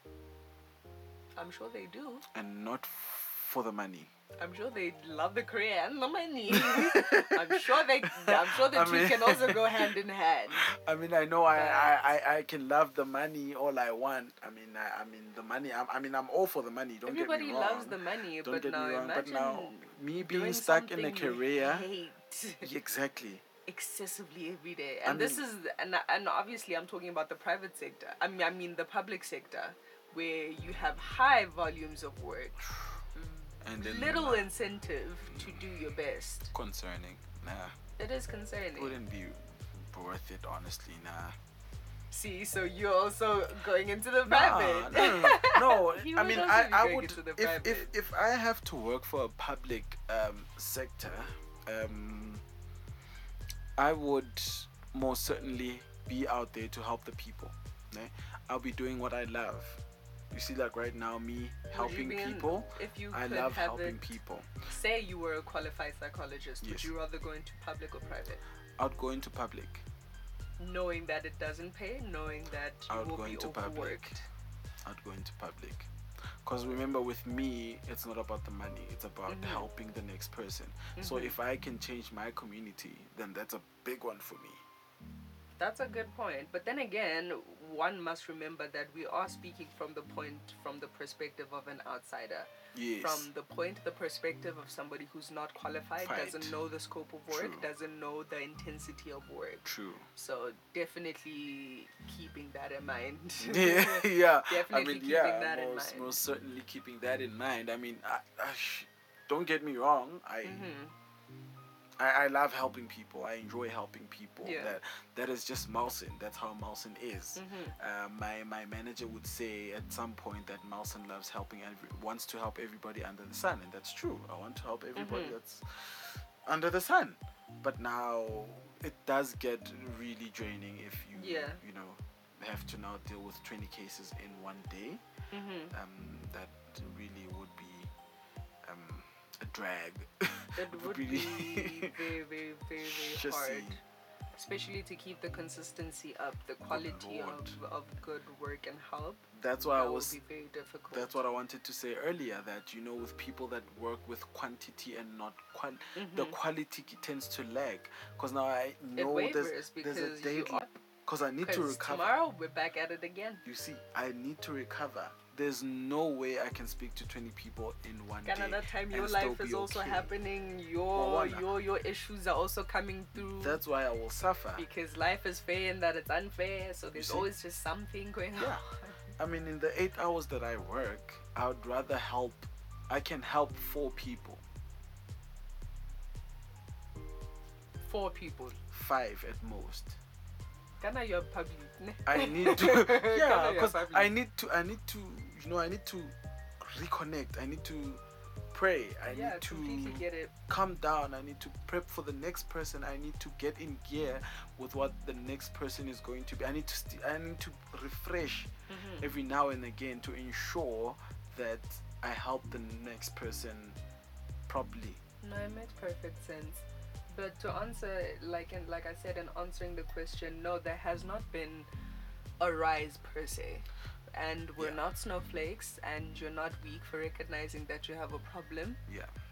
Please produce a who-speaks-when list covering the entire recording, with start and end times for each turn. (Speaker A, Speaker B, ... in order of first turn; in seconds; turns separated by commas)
Speaker A: 1.4-2.2, Speaker B: 2.3-4.1, Speaker A: 4.4-10.7, Speaker B: 6.5-9.9, Speaker B: 10.5-21.9, Speaker A: 11.5-12.0, Speaker A: 17.1-22.7, Speaker B: 22.6-23.4, Speaker A: 23.7-32.6, Speaker B: 25.1-25.4, Speaker B: 32.7-33.0, Speaker A: 33.1-36.5, Speaker B: 33.6-34.5, Speaker B: 35.3-35.6, Speaker B: 36.5-37.8, Speaker A: 38.0-39.0, Speaker B: 38.8-41.4, Speaker A: 42.1-47.9, Speaker B: 44.3-52.4, Speaker B: 53.8-64.5, Speaker A: 61.7-64.1, Speaker A: 64.7-68.4, Speaker B: 66.6-66.9, Speaker B: 68.8-69.8, Speaker A: 70.6-74.3, Speaker B: 72.9-74.2, Speaker B: 74.8-75.9, Speaker B: 76.4-84.6, Speaker A: 79.3-79.7, Speaker A: 81.0-81.4, Speaker A: 85.6-99.6, Speaker B: 92.7-93.3, Speaker B: 96.0-96.5, Speaker B: 97.3-97.7, Speaker B: 99.7-100.1, Speaker A: 100.2-106.2, Speaker B: 103.4-110.7, Speaker A: 110.4-110.9, Speaker B: 112.0-135.0, Speaker A: 114.4-114.8, Speaker A: 117.3-117.8, Speaker A: 125.0-125.4, Speaker A: 131.1-131.6, Speaker A: 135.3-135.8, Speaker B: 135.7-137.9, Speaker B: 138.7-141.9, Speaker A: 140.6-143.8, Speaker B: 142.8-143.8, Speaker A: 144.4-151.2, Speaker B: 146.7-147.6, Speaker B: 149.3-150.2, Speaker B: 150.9-162.2, Speaker A: 156.0-156.4, Speaker A: 159.0-160.7, Speaker A: 161.4-163.4, Speaker B: 163.4-170.1, Speaker A: 168.2-173.6, Speaker B: 170.9-171.4, Speaker B: 173.2-174.7, Speaker A: 174.6-179.0, Speaker B: 176.9-177.3, Speaker B: 178.4-178.7, Speaker B: 179.2-184.4, Speaker A: 187.8-188.6, Speaker B: 188.7-190.0, Speaker A: 190.8-194.1, Speaker B: 192.1-213.8, Speaker A: 199.1-200.3, Speaker A: 208.7-209.1, Speaker B: 214.5-215.0, Speaker A: 215.2-221.7, Speaker A: 222.4-228.8, Speaker B: 228.9-229.1